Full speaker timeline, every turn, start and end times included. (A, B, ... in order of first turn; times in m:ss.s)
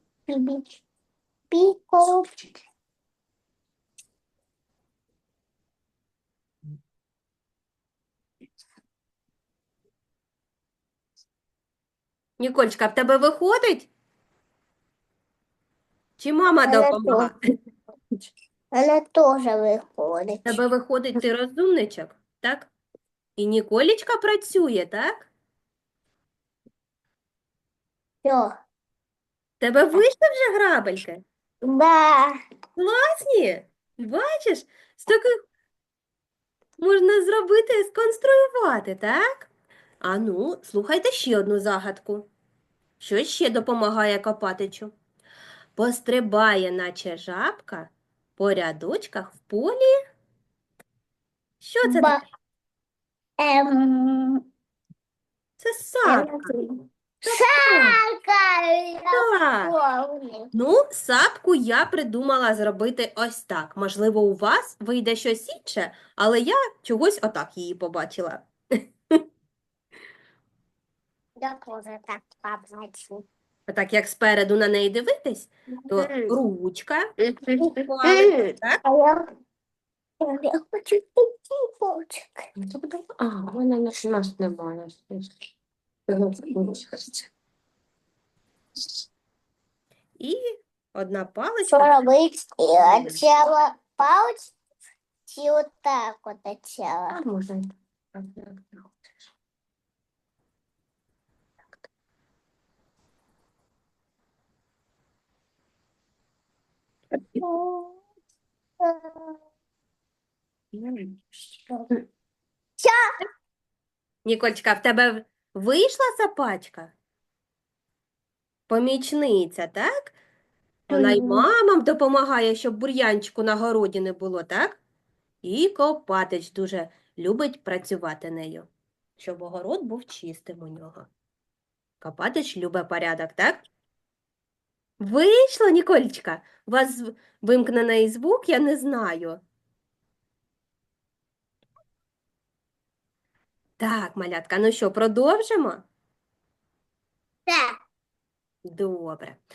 0:00.3-0:00.6 A
0:01.5-0:02.3 A
0:12.4-0:13.9 B
0:16.2-0:17.3 B
0:16.7-0:17.3 A
0:18.7-0:20.6 A
0:20.4-0:22.7 B
0:23.4-0:25.3 B
0:28.2-0:28.5 A
0:29.6-0:31.2 B
0:31.6-0:32.3 A
0:32.8-0:35.3 B
0:36.8-0:39.5 B
0:40.0-0:42.3 B
0:43.0-0:44.9 B
0:45.8-0:49.9 B
0:51.6-0:52.2 B
0:51.8-0:52.2 A
0:53.4-0:54.4 A
0:55.6-0:56.5 B
0:56.0-0:56.7 A
0:57.2-1:00.5 A
0:57.3-0:58.0 B
0:59.1-0:59.7 B
1:00.5-1:09.2 B
1:11.4-1:13.2 A
1:13.7-1:17.1 B
1:15.9-1:16.4 A
1:17.2-1:19.2 A
1:17.9-1:18.8 B
1:20.2-1:22.4 A
1:22.6-1:25.4 C
1:26.1-1:27.2 C
1:31.0-1:31.9 B
1:31.7-1:34.5 A
1:32.8-1:33.2 B
1:35.3-1:37.2 A
1:37.1-1:38.9 C
1:47.4-1:48.0 A
1:48.8-1:49.4 A
1:50.7-1:51.2 C
1:54.2-1:56.9 B
1:58.7-2:00.2 B
2:00.9-2:04.8 B
2:00.9-2:01.4 A
2:05.4-2:08.7 B
2:09.2-2:11.1 B
2:12.0-2:13.6 B
2:15.0-2:19.4 B
2:23.8-2:25.8 B
2:27.5-2:27.8 A
2:28.6-2:29.4 B